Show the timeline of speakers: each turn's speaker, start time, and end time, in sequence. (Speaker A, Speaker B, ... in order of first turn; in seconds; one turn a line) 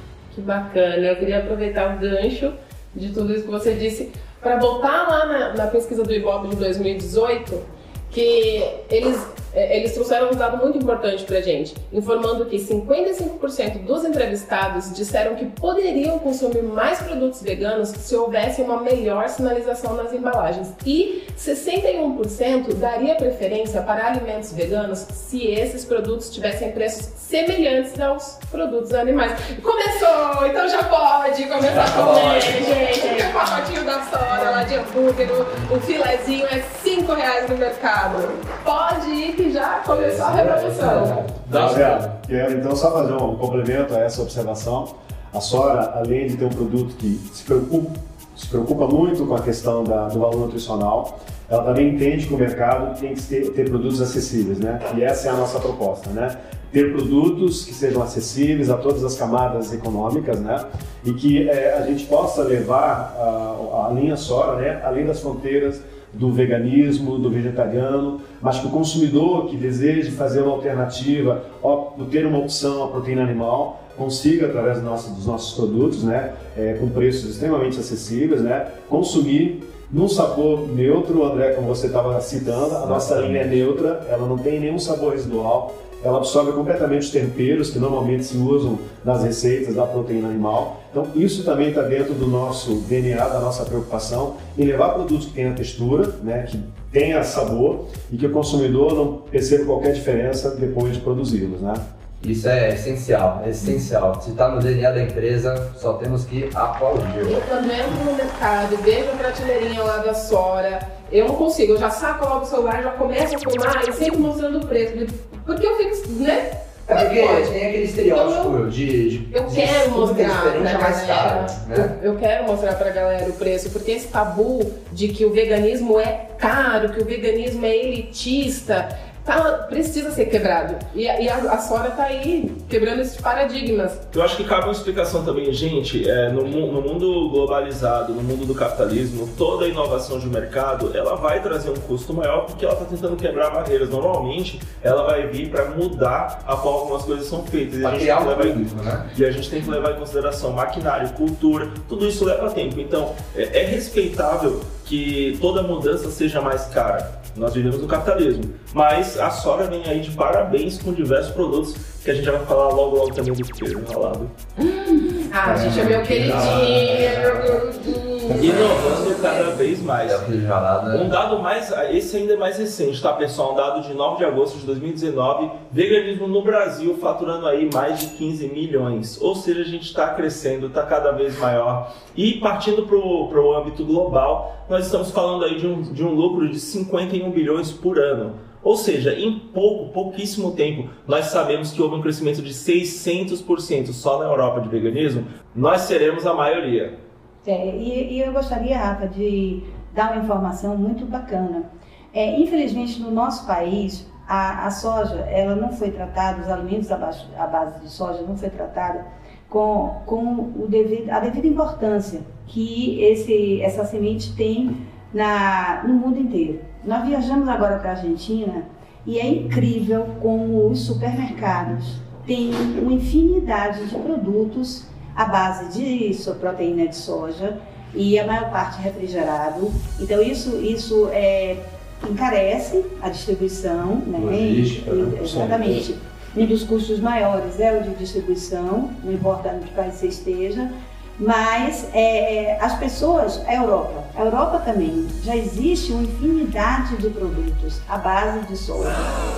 Speaker A: 0.3-41.3
Speaker B: 31.6-32.8
Speaker C: 32.5-33.6
Speaker C: 34.3-34.6
Speaker B: 39.9-42.1
Speaker D: 41.5-101.8
Speaker B: 82.9-83.4
Speaker B: 102.2-107.4
Speaker A: 107.2-118.5
Speaker B: 116.9-121.9
Speaker A: 119.3-134.0
Speaker E: 134.1-164.3
Speaker B: 147.8-149.1
Speaker A: 164.6-169.5
Speaker D: 165.4-167.6
Speaker D: 168.3-168.7
Speaker E: 168.4-170.3
Speaker B: 170.0-171.1
Speaker E: 170.9-196.9
Speaker C: 197.4-249.1
Speaker B: 234.2-235.8
Speaker D: 235.3-235.7